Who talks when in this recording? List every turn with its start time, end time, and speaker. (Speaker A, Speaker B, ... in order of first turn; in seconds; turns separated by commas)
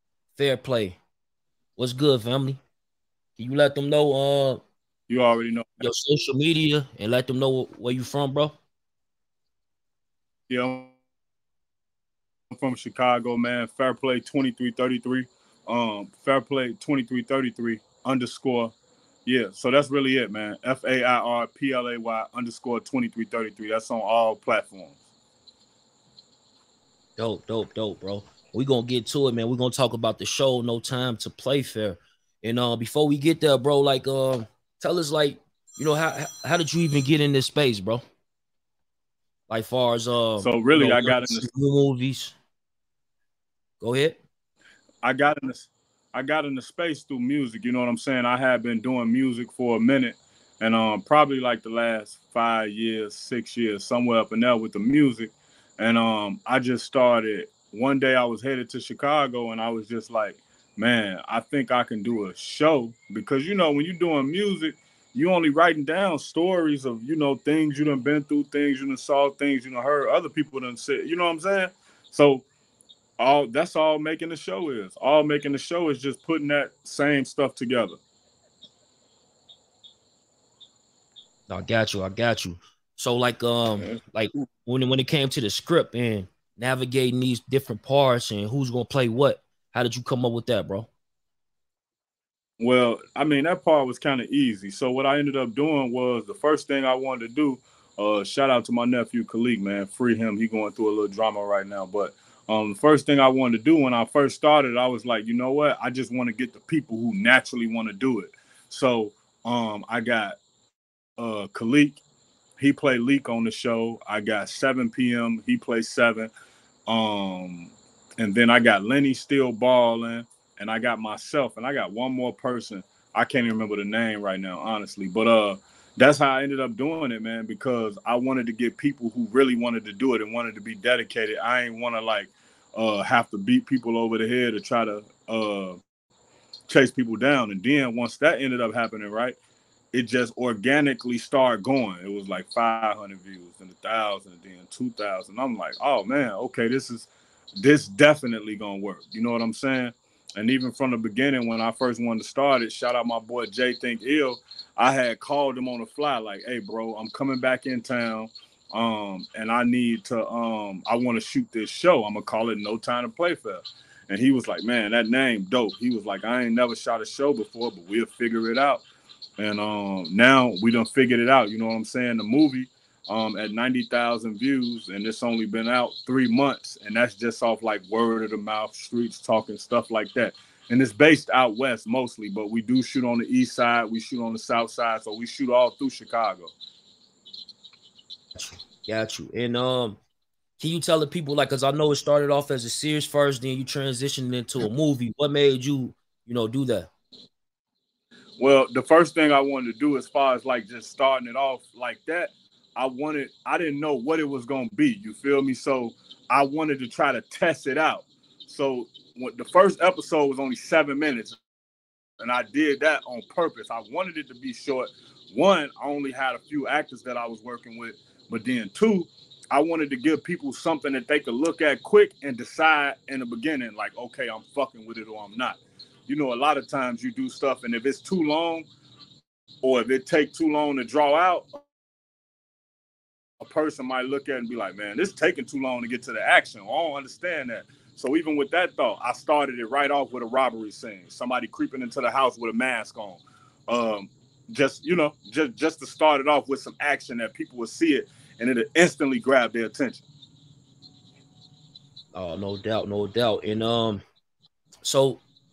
Speaker A: 0.3-1.0, Speaker A: 1.8-2.6, Speaker A: 3.4-4.6, Speaker B: 5.1-5.8, Speaker A: 5.8-8.5, Speaker B: 10.5-10.9, Speaker B: 12.6-18.7, Speaker B: 19.2-25.0, Speaker A: 27.2-38.0, Speaker A: 39.5-42.4, Speaker B: 40.4-41.5, Speaker A: 43.8-44.2, Speaker B: 45.0-72.4, Speaker B: 73.2-78.0, Speaker A: 81.5-90.9, Speaker B: 92.6-110.3, Speaker B: 111.2-112.0, Speaker B: 112.6-116.3, Speaker B: 116.9-135.8, Speaker B: 136.7-139.4, Speaker B: 139.9-168.8, Speaker B: 169.4-186.5, Speaker A: 188.3-190.0, Speaker A: 190.6-196.9, Speaker B: 198.4-211.4, Speaker B: 212.2-228.7, Speaker B: 229.6-231.6, Speaker B: 233.4-250.0, Speaker A: 252.1-254.0, Speaker A: 254.8-255.2